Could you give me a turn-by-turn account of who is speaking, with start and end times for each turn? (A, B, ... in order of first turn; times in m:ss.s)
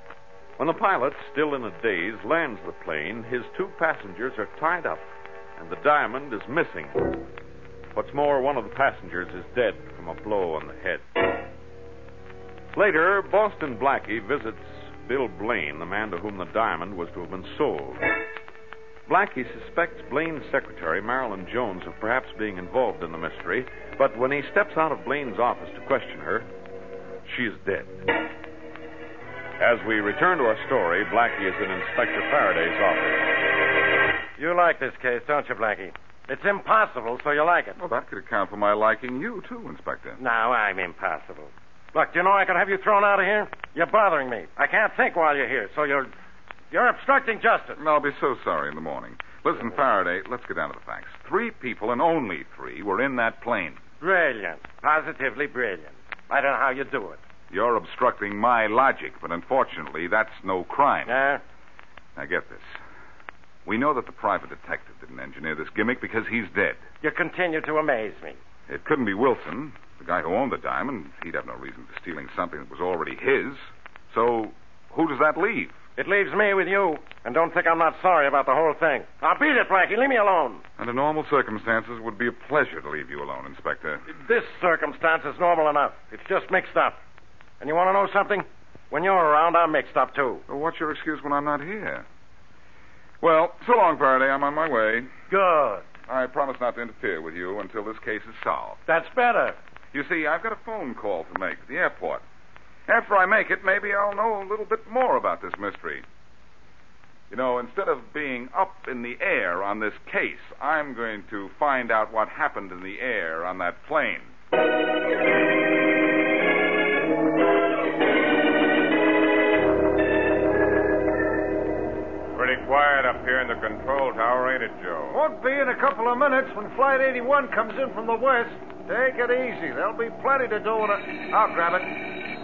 0:00.6-0:05.0 A
0:05.6-0:07.2 A
0:07.9-0:11.0 A
0:12.7-0:18.0 A
0:19.1-0:26.5 A
0:27.2-0:28.0 A
0:29.6-0:33.3 A
0:34.4-0:37.7 B
0:37.8-0:40.2 C
0:40.2-0:46.1 B
0:46.7-0:47.8 B
0:47.8-0:53.8 C
0:54.0-0:57.2 B
0:57.5-1:01.2 C
1:01.1-1:01.4 B
1:02.2-1:02.8 C
1:03.6-1:06.8 C
1:07.0-1:08.4 B
1:08.7-1:15.8 C
1:16.0-1:20.6 B
1:20.8-1:24.0 C
1:24.1-1:27.0 B
1:27.6-1:30.4 B
1:30.5-1:32.0 C
1:33.2-1:35.1 C
1:35.3-1:35.8 B
1:36.1-1:38.8 C
1:38.9-1:39.6 B
1:39.9-1:42.2 C
1:42.9-1:46.0 C
1:47.3-1:54.3 C
2:02.3-2:05.2 D
2:05.1-2:12.0 E